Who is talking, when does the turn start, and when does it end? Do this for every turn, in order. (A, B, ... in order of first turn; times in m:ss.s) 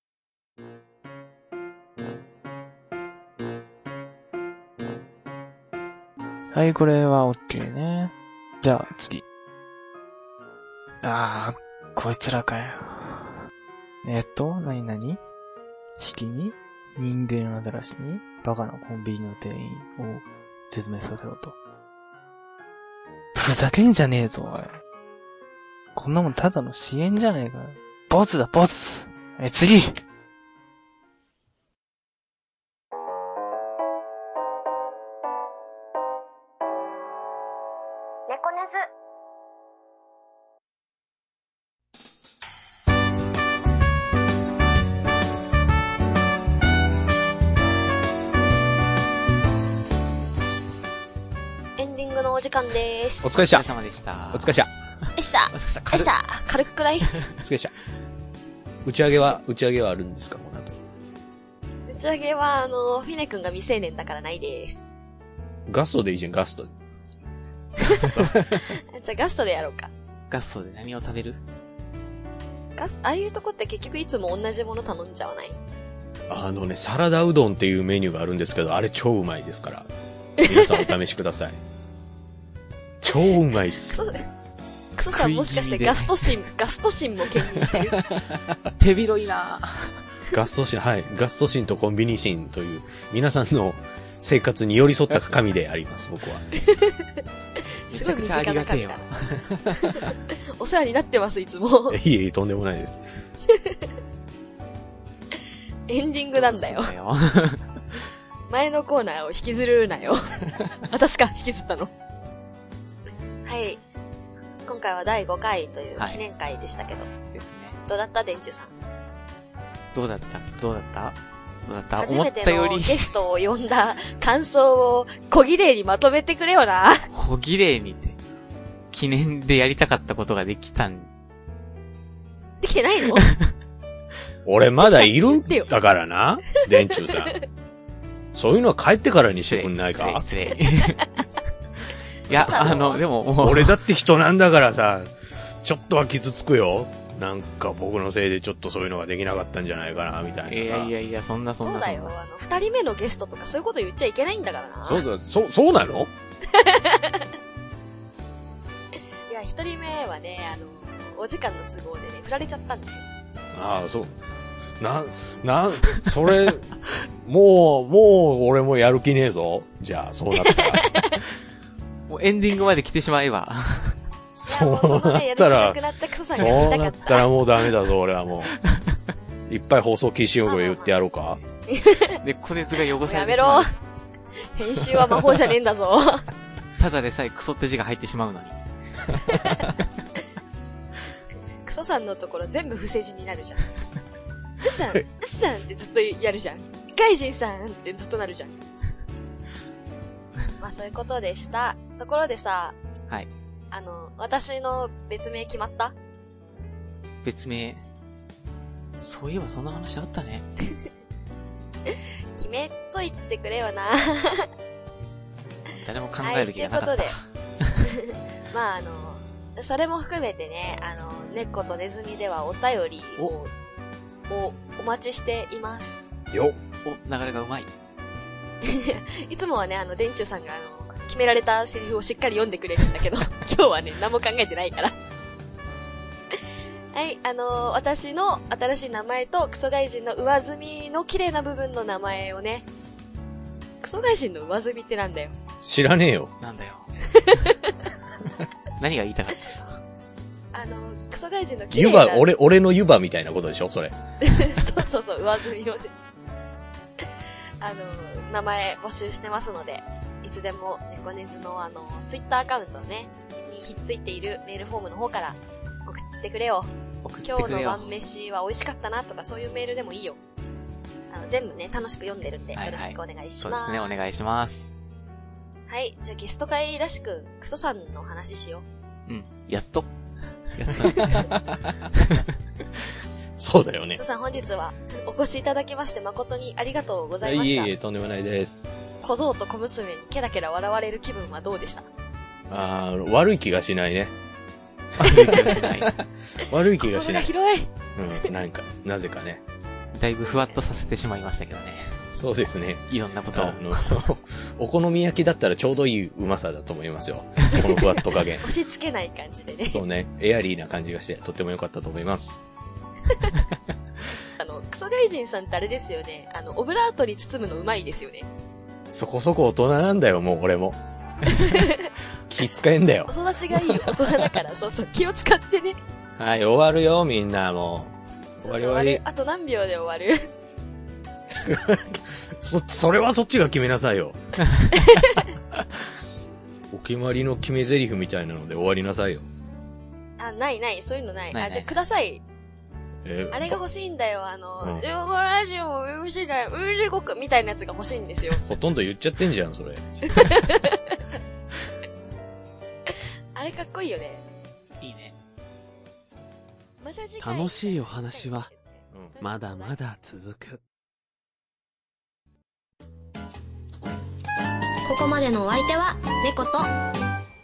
0:06.5-0:09.2 A
0:11.0-0:13.3 A
0:14.0-0:15.2 A
0:16.0-0:21.6 A
0:23.3-0:24.8 A
0:25.9-0:30.0 A
0:38.3-0:38.8 B
0:51.8-0:53.4 C
0:53.2-0:53.7 D
0:53.4-0:54.6 E
0:54.3-0:54.7 D
0:55.1-0:56.1 E
0:55.2-0:57.2 C
0:57.4-0:57.7 D
0:58.8-1:00.8 D
1:01.9-1:04.9 C
1:05.7-1:06.8 D
1:07.8-1:09.9 C
1:07.8-1:08.6 D
1:10.3-1:11.4 E
1:12.8-1:15.6 C
1:16.3-1:19.9 D
1:20.4-1:20.8 C
1:20.4-1:21.6 D
1:23.0-1:24.0 D
1:23.9-1:24.2 C
1:25.0-1:28.0 C
1:25.1-1:26.4 E
1:28.0-1:30.0 E
1:30.3-1:36.5 D
1:36.6-1:37.2 C
1:37.9-1:39.1 C
1:37.9-1:40.1 E
1:39.8-1:42.0 C
1:41.9-1:43.0 D
1:43.5-1:43.8 C
1:45.9-1:46.9 C
1:46.3-1:47.8 E
1:48.5-1:50.2 C
1:50.8-1:51.9 C
1:53.4-1:53.8 C
1:54.7-1:57.1 C
1:56.0-1:56.2 E
1:57.3-1:57.8 E
1:57.9-1:58.7 C
1:59.9-2:03.1 E
2:02.0-2:07.0 C
2:07.1-2:08.2 E
2:08.9-2:11.1 E
2:12.6-2:13.3 C
2:14.4-2:17.4 D
2:14.8-2:15.7 C
2:18.3-2:20.2 D
2:19.4-2:21.1 E
2:22.3-2:23.8 E
2:22.3-2:23.0 C
2:22.3-2:22.8 D
2:23.4-2:30.9 D
2:30.5-2:32.2 E
2:31.6-2:35.0 C
2:34.8-2:36.1 D
2:36.5-2:37.3 C
2:39.3-2:43.0 C
2:43.5-2:44.2 D
2:44.8-2:50.8 D
2:50.5-2:51.2 C
2:52.1-2:54.0 E
2:54.3-2:55.8 D
2:54.5-2:57.3 C
2:56.3-2:58.5 D
2:56.4-2:56.7 E
2:58.7-2:59.0 E
2:59.5-3:01.4 D
3:00.4-3:00.9 C
3:01.7-3:02.2 C
3:02.0-3:03.7 E
3:03.0-3:03.7 C
3:04.5-3:06.3 C
3:06.8-3:08.6 E
3:09.3-3:09.6 C
3:11.6-3:13.7 C
3:14.6-3:18.6 C
3:20.6-3:22.8 C
3:23.7-3:25.9 C
3:27.2-3:27.8 E
3:29.0-3:30.4 E
3:31.9-3:34.5 C
3:35.7-3:37.8 E
3:36.2-3:37.2 C
3:37.8-3:43.5 C
3:44.3-3:46.1 C
3:46.3-3:46.6 D
3:46.8-3:47.7 E
3:48.6-3:54.9 C
3:56.9-4:02.6 C
4:03.8-4:05.3 C
4:05.6-4:06.3 D
4:06.4-4:07.0 E
4:07.1-4:07.7 C
4:08.8-4:09.8 E
4:10.5-4:12.2 C
4:11.7-4:14.0 D
4:14.2-4:15.9 C
4:17.6-4:26.7 C
4:27.0-4:27.9 E
4:27.2-4:30.2 C
4:31.1-4:34.0 C
4:32.5-4:34.7 E
4:35.7-4:38.6 C
4:39.1-4:39.9 E
4:40.5-4:42.2 E
4:43.4-4:44.0 D
4:44.0-4:47.7 C
4:47.2-4:48.7 D
4:49.0-4:51.9 C
4:52.5-4:54.1 D
4:55.0-4:55.9 E
4:55.0-4:57.3 D
4:56.4-4:57.7 C
4:57.9-4:59.4 D
4:59.9-5:02.0 E
5:00.2-5:00.6 C
5:02.1-5:08.5 D
5:02.9-5:04.0 E
5:08.4-5:09.8 C
5:09.7-5:12.4 D
5:13.1-5:13.3 C
5:14.4-5:18.3 C
5:18.9-5:20.8 D
5:21.2-5:21.9 C
5:22.3-5:23.1 D
5:23.1-5:25.8 C
5:26.2-5:29.0 D
5:28.4-5:30.3 C
5:31.3-5:34.2 D
5:34.5-5:34.8 E
5:34.7-5:35.3 C
5:36.7-5:39.3 D
5:40.2-5:42.2 C
5:41.3-5:41.7 E
5:43.0-5:43.6 D
5:43.3-5:48.4 C
5:48.4-5:50.4 D
5:50.1-5:51.0 C
5:53.3-5:54.2 C
5:54.8-5:55.2 E
5:56.8-5:59.8 C
5:57.2-5:58.5 F
5:58.9-5:59.2 D
5:59.2-6:00.6 F
6:04.8-6:06.7 B